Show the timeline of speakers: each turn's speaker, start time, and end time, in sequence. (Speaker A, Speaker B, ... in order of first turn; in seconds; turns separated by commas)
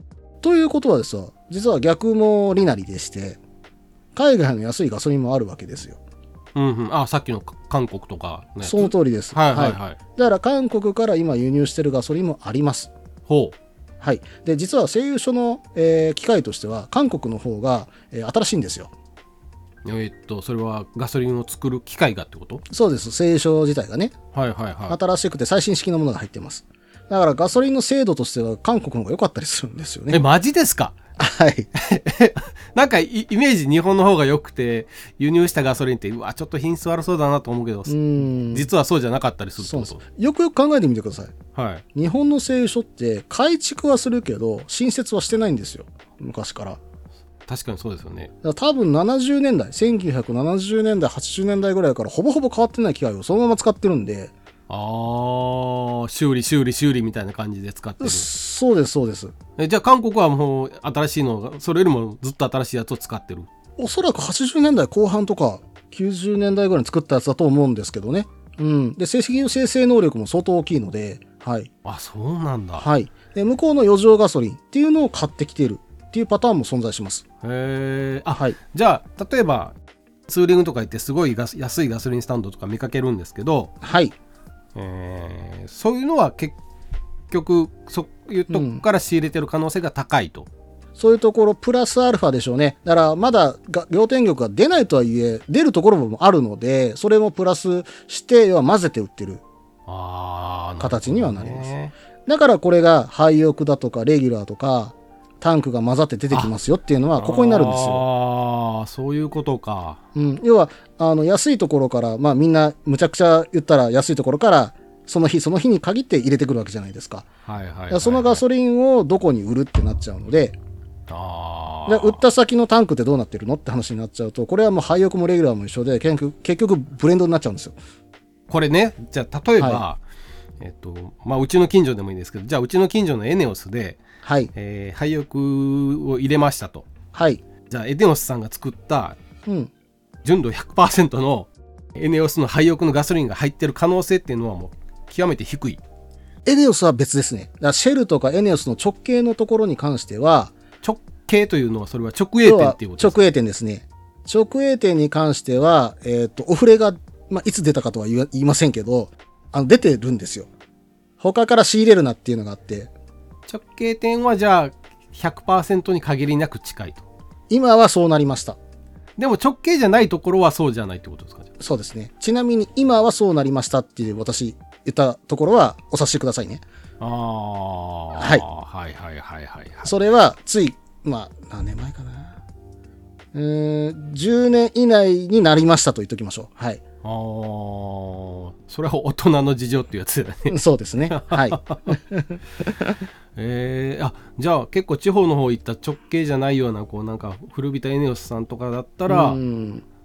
Speaker A: 0.4-3.4, Speaker A: 4.1-6.0, Speaker B: 6.5-10.0, Speaker A: 8.6-12.9, Speaker B: 13.3-13.5, Speaker A: 14.0-18.9, Speaker B: 19.8-22.6, Speaker A: 22.7-24.1, Speaker B: 24.3-25.0, Speaker A: 24.9-30.2, Speaker B: 30.1-30.9, Speaker A: 31.2-31.7, Speaker B: 31.7-40.0, Speaker A: 37.9-38.7, Speaker A: 39.6-41.3, Speaker B: 41.5-41.8, Speaker A: 41.9-46.8, Speaker B: 47.5-48.3, Speaker A: 48.4-54.3, Speaker B: 54.7-58.3, Speaker A: 58.0-59.3, Speaker B: 59.6-63.5, Speaker A: 63.8-71.7, Speaker B: 71.8-72.9, Speaker A: 72.8-77.2, Speaker B: 77.4-79.7, Speaker B: 80.3-83.7, Speaker A: 83.8-84.1, Speaker B: 84.7-86.6, Speaker B: 87.3-90.5, Speaker A: 88.5-88.8, Speaker A: 91.0-99.4, Speaker B: 99.9-101.9, Speaker A: 100.8-101.7, Speaker A: 102.2-108.0, Speaker B: 107.2-110.0, Speaker A: 110.1-117.2, Speaker B: 117.4-118.4, Speaker A: 117.9-120.6, Speaker B: 121.1-122.2, Speaker A: 121.9-127.8, Speaker B: 128.5-130.0, Speaker B: 130.6-136.9, Speaker A: 134.2-134.5, Speaker A: 137.1-137.4, Speaker B: 137.7-139.2, Speaker A: 139.4-139.7, Speaker B: 140.2-145.8, Speaker A: 146.4-150.5, Speaker B: 150.8-153.2, Speaker A: 152.4-160.5, Speaker A: 161.2-162.9, Speaker B: 163.5-167.0, Speaker A: 167.5-168.6, Speaker B: 169.2-171.5, Speaker A: 171.6-176.6, Speaker B: 177.0-179.9, Speaker A: 178.2-178.4, Speaker A: 179.8-182.4, Speaker A: 183.3-186.8, Speaker B: 187.0-190.6, Speaker A: 190.5-193.0, Speaker B: 191.1-191.9, Speaker B: 193.3-199.4, Speaker A: 199.1-199.8